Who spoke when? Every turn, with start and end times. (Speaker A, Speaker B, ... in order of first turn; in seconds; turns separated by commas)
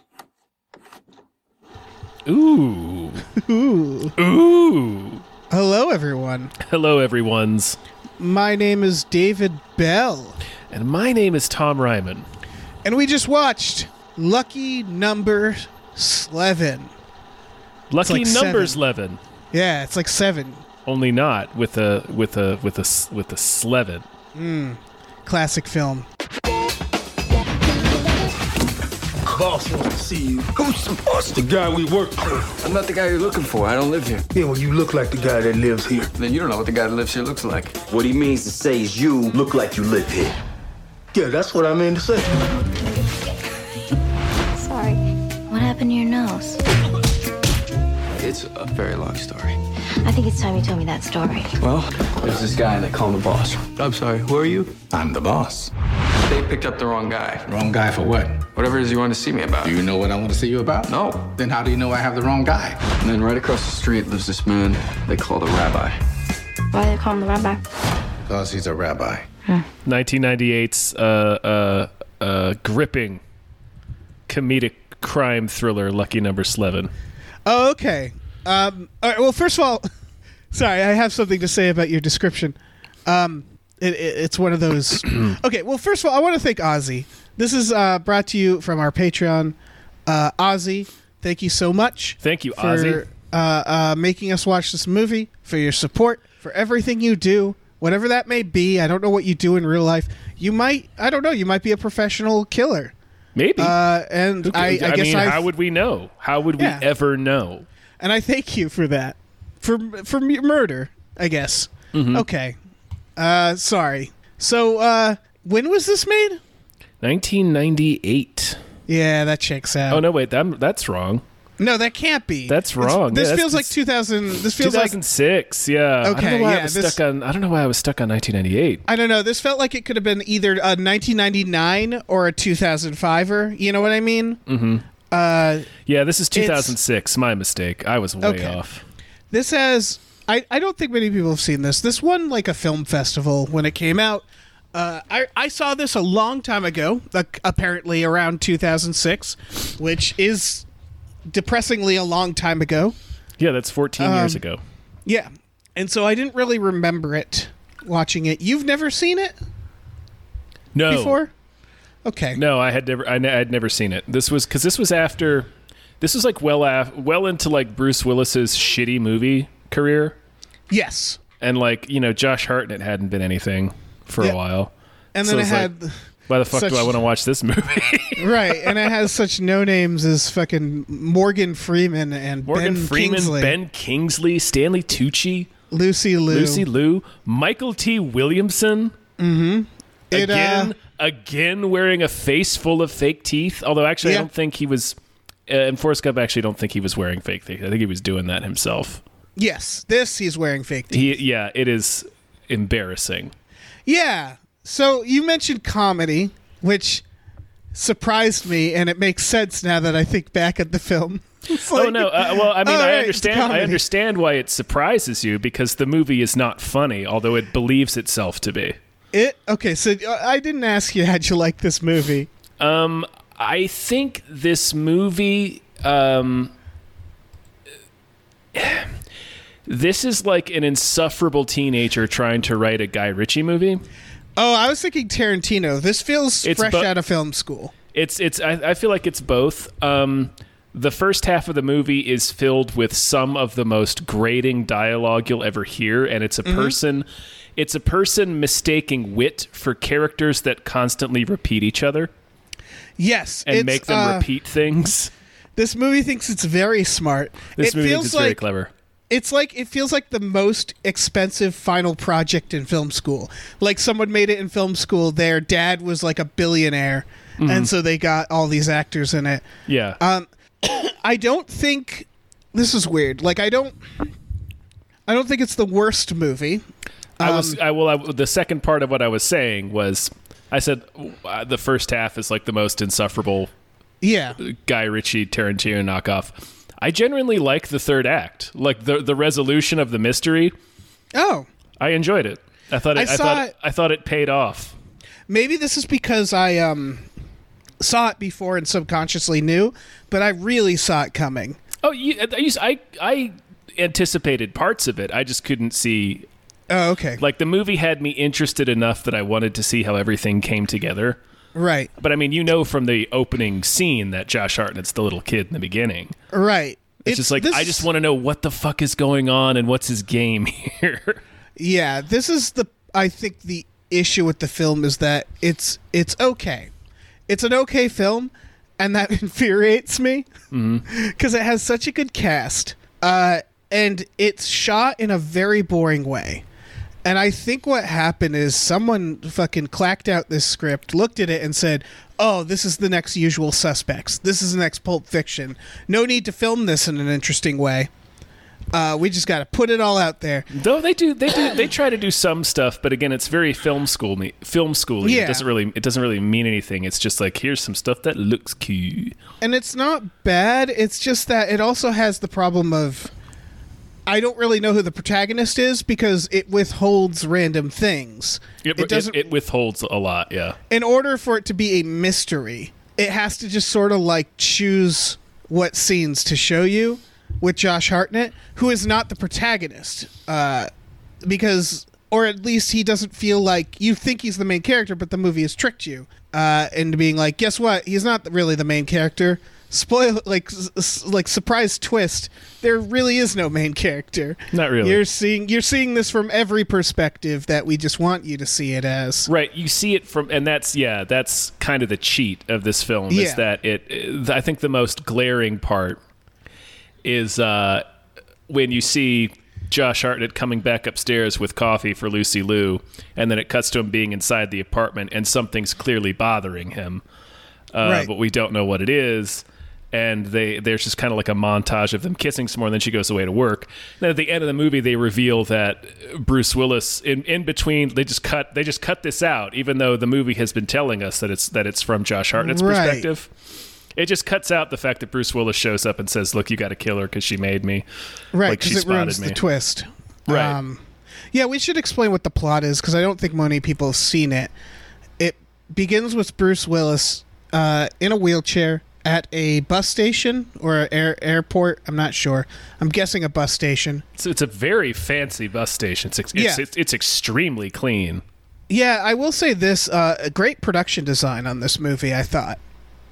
Speaker A: 2.2-3.3, Speaker B: 3.3-4.1, Speaker A: 4.2-5.2, Speaker B: 5.5-6.5, Speaker A: 6.6-7.8, Speaker B: 8.2-10.4, Speaker A: 10.7-12.2, Speaker B: 12.8-16.9, Speaker A: 17.9-19.2, Speaker B: 18.0-18.8, Speaker B: 19.5-20.6, Speaker A: 20.9-24.0, Speaker B: 24.3-26.1, Speaker C: 29.3-32.5, Speaker D: 32.6-34.2, Speaker C: 34.3-36.1, Speaker D: 36.1-37.8, Speaker E: 37.9-40.4, Speaker C: 41.1-42.6, Speaker F: 44.5-46.6, Speaker D: 48.1-49.6, Speaker F: 50.0-51.5, Speaker D: 51.6-54.8, Speaker G: 54.9-55.7, Speaker D: 56.2-57.5, Speaker G: 57.5-58.4, Speaker D: 58.5-59.8, Speaker G: 59.6-62.9, Speaker D: 60.9-61.3, Speaker D: 63.0-66.0, Speaker F: 66.7-67.6, Speaker G: 68.3-69.3, Speaker A: 69.8-73.2, Speaker A: 74.3-76.9, Speaker B: 77.5-79.8, Speaker B: 80.5-102.9, Speaker A: 85.1-85.3, Speaker A: 92.2-93.0, Speaker A: 103.3-103.8, Speaker B: 103.6-105.5, Speaker A: 104.4-107.7, Speaker B: 106.6-106.8, Speaker B: 108.0-112.6, Speaker A: 111.9-112.2, Speaker B: 113.2-116.4, Speaker A: 117.0-118.6, Speaker B: 118.9-120.0, Speaker A: 119.9-121.2, Speaker B: 121.6-125.0, Speaker A: 122.5-123.7, Speaker A: 124.5-128.8, Speaker B: 126.0-127.0, Speaker B: 128.9-134.4, Speaker A: 134.5-134.8, Speaker B: 135.1-135.7, Speaker A: 135.8-138.8, Speaker B: 136.3-136.8, Speaker B: 138.2-138.6, Speaker B: 139.3-150.7, Speaker B: 151.3-152.9, Speaker A: 153.4-154.6, Speaker B: 154.0-154.4, Speaker B: 155.1-159.3, Speaker A: 160.7-161.2, Speaker B: 160.9-161.3, Speaker B: 162.0-162.4, Speaker A: 162.3-165.5, Speaker A: 166.0-170.2, Speaker B: 170.7-171.2, Speaker A: 171.4-175.7, Speaker B: 175.1-175.9, Speaker A: 176.3-178.8, Speaker B: 176.5-177.0, Speaker B: 178.2-183.6, Speaker A: 182.4-185.5, Speaker B: 185.7-186.6, Speaker A: 186.3-188.9, Speaker B: 189.2-190.7, Speaker A: 190.1-194.9, Speaker B: 194.0-194.3, Speaker A: 195.5-199.0, Speaker B: 199.4-201.1, Speaker A: 200.9-203.3, Speaker B: 203.8-207.0, Speaker B: 207.7-213.8, Speaker A: 211.5-218.8, Speaker B: 219.1-222.3, Speaker A: 222.6-226.5, Speaker A: 228.5-228.9, Speaker A: 229.7-233.8, Speaker B: 234.3-237.7, Speaker A: 236.4-236.9, Speaker A: 237.9-252.1, Speaker B: 246.4-246.8, Speaker B: 253.0-254.3, Speaker A: 253.4-255.1, Speaker B: 255.6-258.4, Speaker A: 257.6-258.7, Speaker B: 259.1-269.5, Speaker A: 267.4-267.7, Speaker A: 269.7-270.0, Speaker B: 270.0-273.8, Speaker B: 275.1-276.6, Speaker B: 277.2-277.6, Speaker A: 277.2-283.5, Speaker B: 284.0-284.4, Speaker A: 284.4-290.5, Speaker B: 291.1-291.5, Speaker A: 291.8-294.7, Speaker B: 292.9-293.5, Speaker B: 295.3-297.1, Speaker B: 297.8-301.6, Speaker A: 301.8-306.3, Speaker B: 306.7-307.2, Speaker A: 307.2-311.2, Speaker B: 311.5-311.9, Speaker A: 312.0-316.1, Speaker B: 316.3-317.9, Speaker A: 317.1-321.2, Speaker B: 321.6-326.7, Speaker B: 327.3-330.3, Speaker A: 330.5-330.8, Speaker B: 330.9-336.4, Speaker B: 337.0-347.9, Speaker B: 348.7-350.5, Speaker A: 350.5-359.1, Speaker B: 355.0-355.5, Speaker B: 359.4-363.1, Speaker B: 364.1-369.3, Speaker A: 368.6-370.6, Speaker B: 370.7-380.7, Speaker B: 381.2-399.3, Speaker A: 394.5-395.0, Speaker A: 399.2-406.0, Speaker B: 403.1-403.4, Speaker A: 407.0-407.8, Speaker A: 408.5-417.0, Speaker A: 417.7-433.3, Speaker B: 417.8-418.1, Speaker B: 432.4-433.1, Speaker A: 433.9-437.8, Speaker B: 438.3-444.5, Speaker A: 438.4-439.4, Speaker A: 440.3-440.6, Speaker B: 445.2-454.0, Speaker A: 454.2-458.2, Speaker B: 456.3-456.6, Speaker B: 458.7-462.6